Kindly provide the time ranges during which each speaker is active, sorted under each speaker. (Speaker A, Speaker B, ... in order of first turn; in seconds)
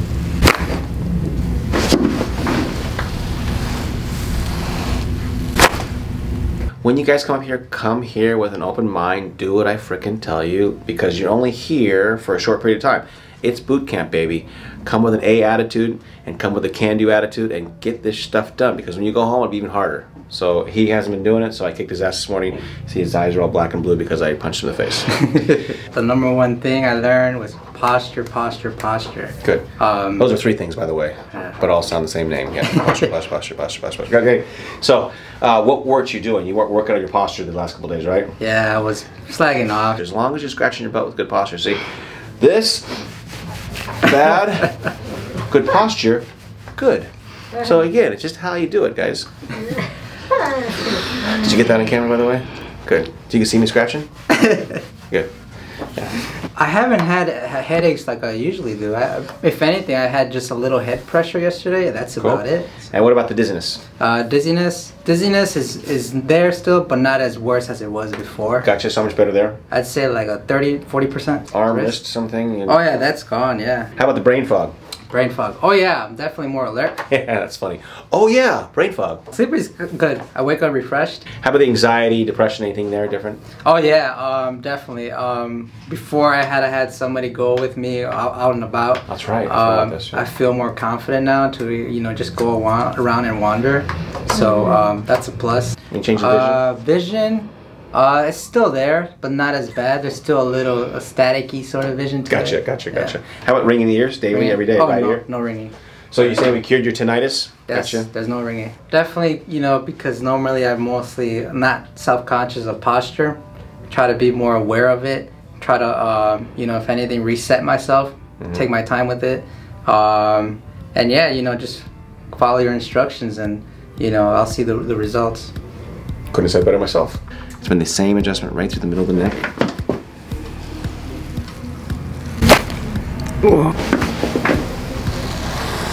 Speaker A: 6.8-25.1, 30.2-38.3, 40.0-41.8, 42.4-42.9, 44.0-44.9, 45.5-46.2, 46.8-49.3, 51.1-54.1, 62.2-63.8, 68.6-69.6, 71.5-72.8, 74.0-74.7, 77.1-79.2, 81.4-83.4, 89.1-90.2, 95.9-96.6, 102.3-105.2, 106.1-108.1, 126.3-129.5
Speaker B: 25.1-30.3, 38.4-40.0, 54.4-54.8, 56.5-62.9, 64.0-68.7, 69.7-72.0, 72.7-73.9, 75.1-77.1, 79.3-81.3, 83.6-103.1, 104.3-106.6, 107.7-125.5